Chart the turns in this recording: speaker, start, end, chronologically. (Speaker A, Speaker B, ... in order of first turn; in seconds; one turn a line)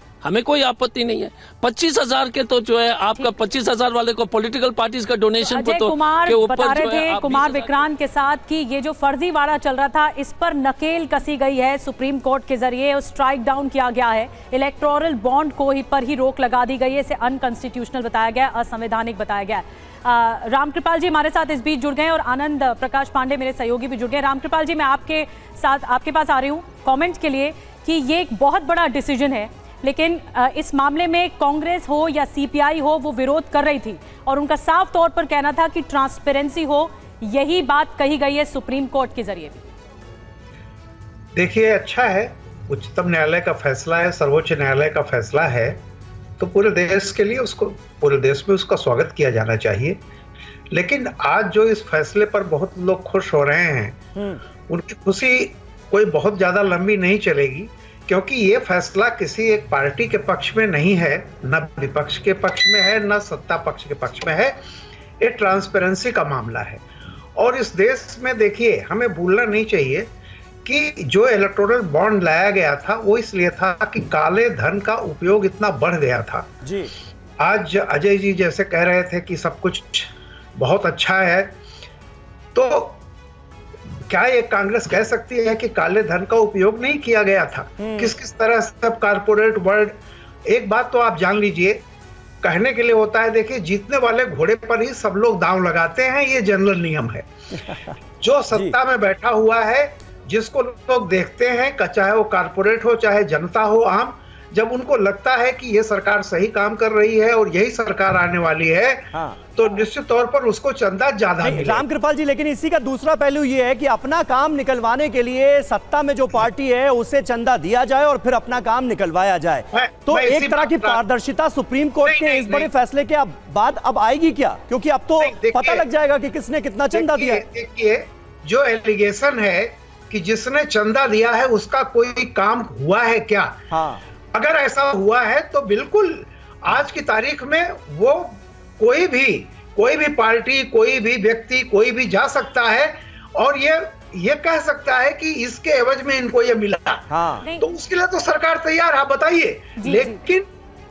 Speaker A: 0.2-7.8
Speaker B: 5.4-39.6
Speaker C: 41.4-45.8
Speaker C: 46.4-50.0
Speaker C: 50.7-54.0
Speaker D: 54.2-54.4
Speaker C: 54.7-64.6
Speaker C: 65.2-66.8
Speaker C: 67.4-70.1
Speaker C: 70.7-76.5
Speaker D: 76.6-76.9
Speaker C: 77.4-81.6
Speaker C: 82.5-83.0
Speaker C: 84.1-91.8
Speaker D: 87.8-88.1
Speaker C: 92.4-97.3
Speaker C: 98.2-111.9
Speaker D: 111.4-127.4
Speaker C: 119.7-121.0
Speaker C: 122.0-122.7
Speaker C: 125.2-125.9
Speaker C: 126.9-133.6
Speaker D: 133.7-134.0
Speaker C: 134.3-150.5
Speaker D: 147.1-147.4
Speaker B: 147.4-147.7
Speaker B: 149.8-150.2